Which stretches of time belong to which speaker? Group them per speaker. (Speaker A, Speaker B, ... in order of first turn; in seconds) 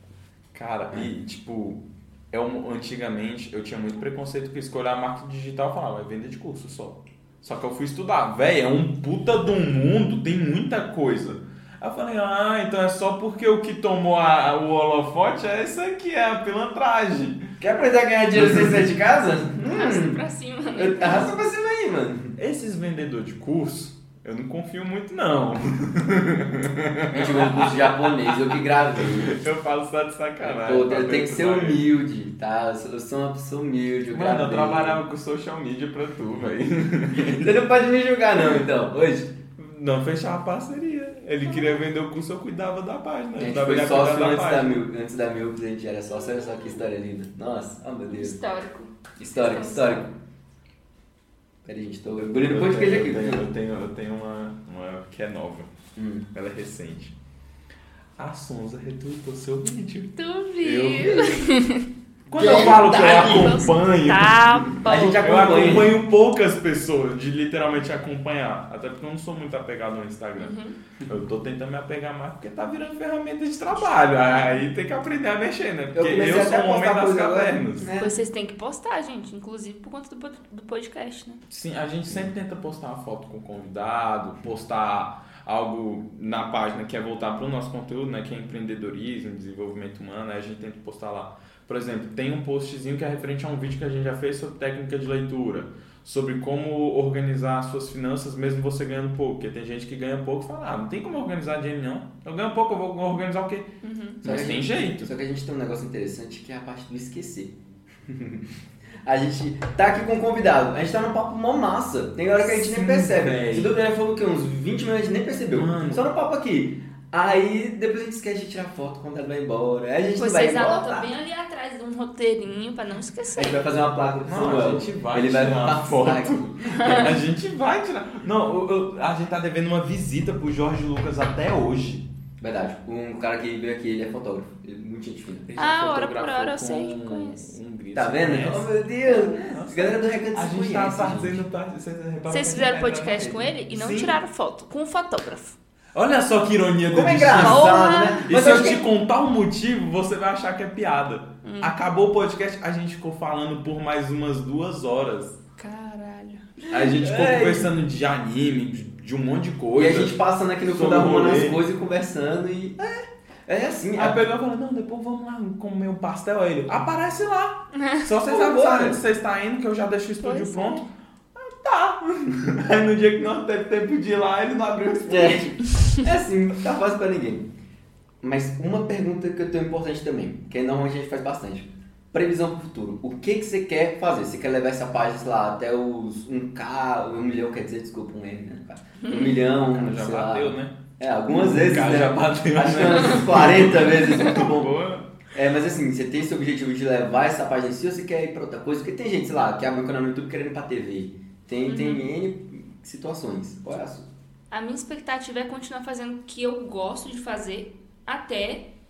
Speaker A: 0.5-17.4, 18.3-18.8, 22.4-31.8, 34.1-37.5, 39.6-44.9, 52.2-55.7, 56.3-57.1, 58.2-61.4, 62.3-64.7, 65.2-70.5, 71.1-77.9, 81.5-103.7, 104.2-105.1, 112.5-113.7, 115.5-116.0, 124.2-132.1, 135.6-144.2, 145.9-147.7, 148.3-155.4, 156.7-161.6, 163.9-175.6, 189.6-195.1
Speaker B: 17.6-20.2, 20.8-22.4, 27.1-29.3, 30.4-35.0, 37.1-39.3, 43.4-48.4, 49.2-50.1, 51.6-53.5, 56.0-56.3, 62.3-63.6, 64.8-66.0, 75.9-78.1, 104.2-108.5, 109.0-121.1, 123.3-127.1, 132.4-135.8, 137.9-141.4, 146.9-148.8, 156.6-157.7, 159.7-164.2, 168.2-169.0, 175.1-177.5, 178.2-194.7, 195.3-204.1
Speaker C: 19.7-21.3, 41.4-41.8, 48.1-50.1, 60.2-61.8, 62.4-65.3, 70.4-70.8, 73.9-74.6, 78.0-81.4, 103.8-104.2, 120.2-123.6, 126.8-127.1, 135.6-137.5, 142.3-145.6, 147.4-148.3, 151.4-151.7, 155.6-156.4, 167.7-168.0, 170.2-170.8, 189.0-189.4, 201.7-202.0, 204.5-208.7